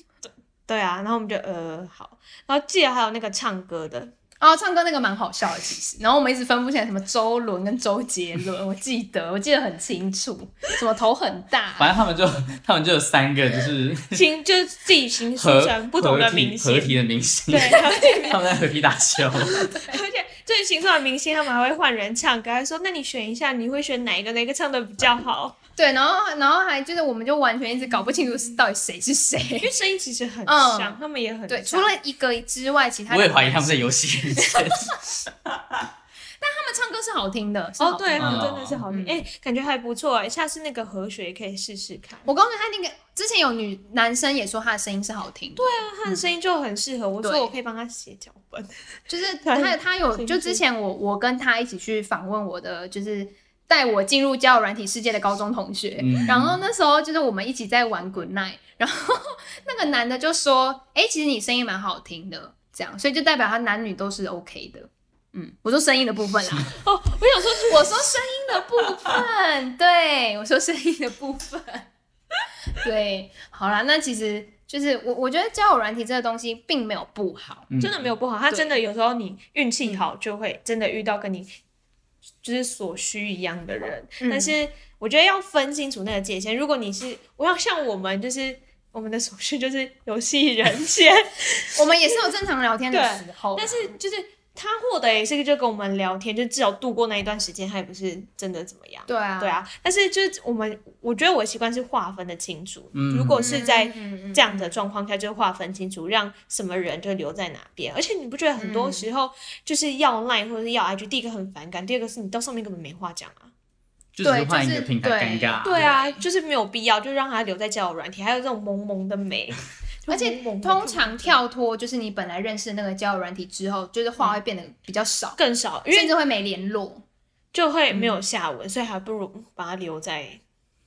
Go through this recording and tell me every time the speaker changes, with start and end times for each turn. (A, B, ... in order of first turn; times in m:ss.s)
0:00.2-0:04.1 A
0:04.4-0:11.9 B
0:11.8-0:14.2 C
0:14.1-0:18.5 A
0:15.4-0:19.7 C
0:17.7-0:18.4 B
0:19.3-0:25.6 A
0:19.6-0:20.0 B
0:25.8-0:29.7 B
0:29.6-0:31.9 A
0:30.5-0:35.0 B
0:33.1-0:35.8 C
0:36.4-0:39.2 B
0:37.8-0:42.3 A
0:38.2-0:38.8 C
0:42.3-0:46.2 B
0:45.6-0:48.7 A
0:47.2-0:47.5 B
0:49.1-1:06.7 B
0:49.4-0:50.6 A
0:56.0-0:56.6 C
1:06.8-1:08.0 A
1:07.6-1:11.9 B
1:12.7-1:17.7 B
1:17.7-1:18.1 C
1:17.8-1:21.5 A
1:18.5-1:18.8 B
1:22.4-1:32.2 A
1:24.2-1:24.5 B
1:31.8-1:33.9 B
1:32.9-1:53.5 A
1:39.1-1:39.6 B
1:42.9-1:43.6 C
1:43.4-1:44.8 B
1:48.6-1:49.1 B
1:54.1-1:55.9 C
1:54.2-1:56.2 B
1:55.6-2:01.4 A
2:00.1-2:05.4 B
2:05.4-2:06.1 A
2:05.9-2:07.0 B
2:07.5-2:10.4 A
2:07.9-2:08.2 B